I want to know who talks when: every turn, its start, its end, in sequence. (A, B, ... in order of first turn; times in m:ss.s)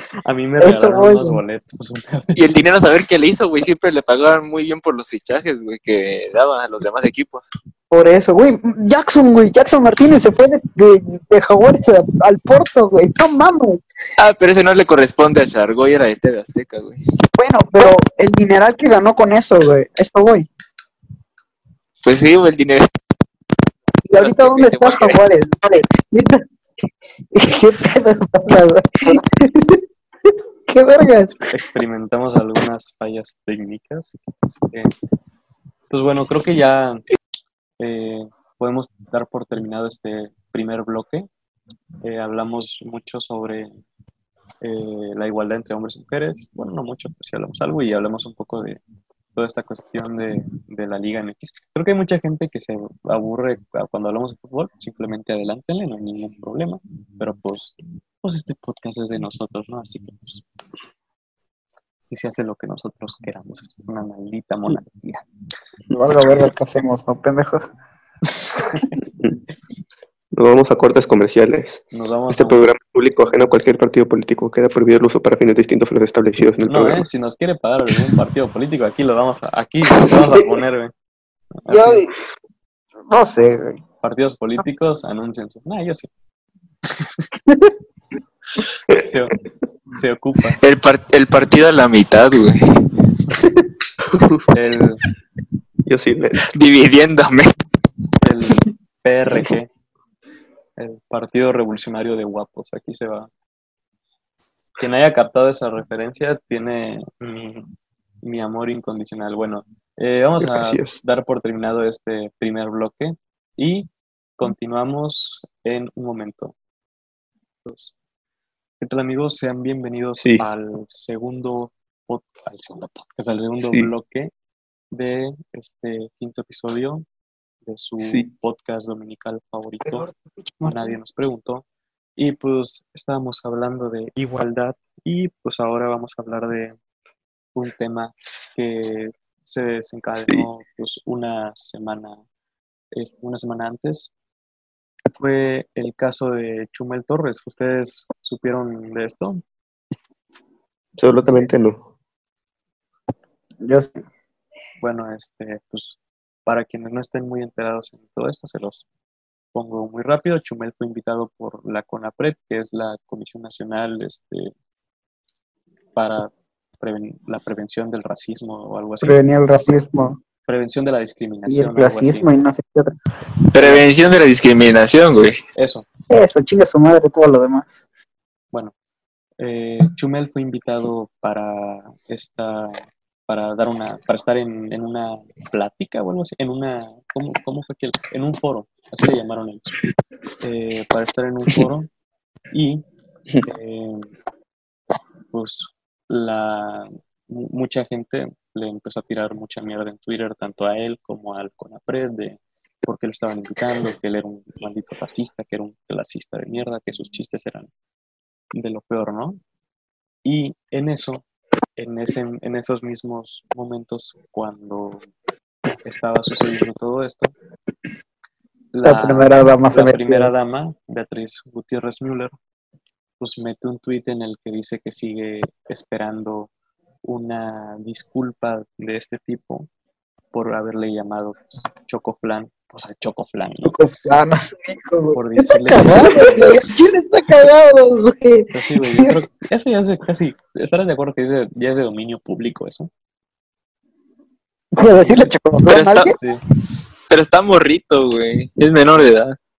0:00.2-0:02.4 A
0:00.6-0:01.4 B
0:02.4-0:07.5 C
0:07.9-0:13.8 B
0:14.2-0:17.0 C
0:17.4-0:20.5 B
0:22.0-0:22.9 C
0:24.0-0:26.4 B
0:24.1-0:25.2 C
0:27.3-0:29.8 B
0:30.7-0:31.4 B
0:31.5-0:34.9 A
0:35.9-0:37.0 A
0:37.8-0:41.3 A
0:42.0-0:43.7 A
0:44.6-0:48.8 A
0:49.3-1:00.4 A
1:02.1-1:05.2 A
1:05.9-1:07.7 B
1:10.4-1:17.0 D
1:11.9-1:12.6 A
1:16.7-1:20.9 A
1:21.6-1:22.0 A
1:21.7-1:22.1 B
1:23.1-1:23.8 B
1:24.0-1:26.1 A
1:27.5-1:27.7 B
1:29.0-1:29.4 A
1:29.9-1:30.6 A
1:30.6-1:32.6 C
1:34.1-1:34.4 D
1:34.5-1:35.0 A
1:35.8-1:36.4 D
1:36.5-1:37.5 C
1:38.2-1:39.7 A
1:40.8-1:43.3 A
1:44.8-1:47.7 A
1:48.2-1:56.5 A
1:50.4-1:51.0 D
1:57.6-1:57.9 A
1:58.8-2:04.3 A
2:00.2-2:00.4 D
2:03.6-2:03.9 D
2:04.9-2:07.0 A
2:07.6-2:10.1 A
2:09.8-2:10.9 B
2:10.6-2:11.6 A
2:12.2-2:16.8 A
2:17.5-2:22.2 A
2:22.9-2:24.1 A
2:25.2-2:29.4 A
2:31.0-2:31.8 D
2:33.6-2:34.0 B
2:34.8-2:38.8 A
2:39.5-2:44.5 A
2:45.9-2:49.8 A
2:49.0-2:50.2 B
2:50.4-2:52.3 A
2:51.5-2:53.1 B
2:53.5-2:55.4 C
2:53.6-2:53.8 A
2:55.5-2:55.9 A
2:56.1-2:57.7 B
2:59.4-3:09.7 A
3:10.4-3:11.9 A
3:12.5-3:12.8 A
3:13.4-3:14.1 A
3:15.3-3:27.7 A
3:28.5-3:29.4 A
3:30.2-3:31.2 A
3:31.8-3:35.0 A
3:35.8-3:37.3 A
3:38.7-3:42.3 A
3:38.8-3:40.3 B
3:43.2-3:46.5 A
3:47.0-3:49.7 A
3:50.3-3:53.8 A
3:53.6-3:59.1 B
3:55.1-3:56.6 A
3:58.5-4:02.9 A
4:04.7-4:06.1 B
4:04.8-4:05.3 A
4:05.7-4:06.1 C
4:06.1-4:06.4 A
4:07.1-4:09.4 C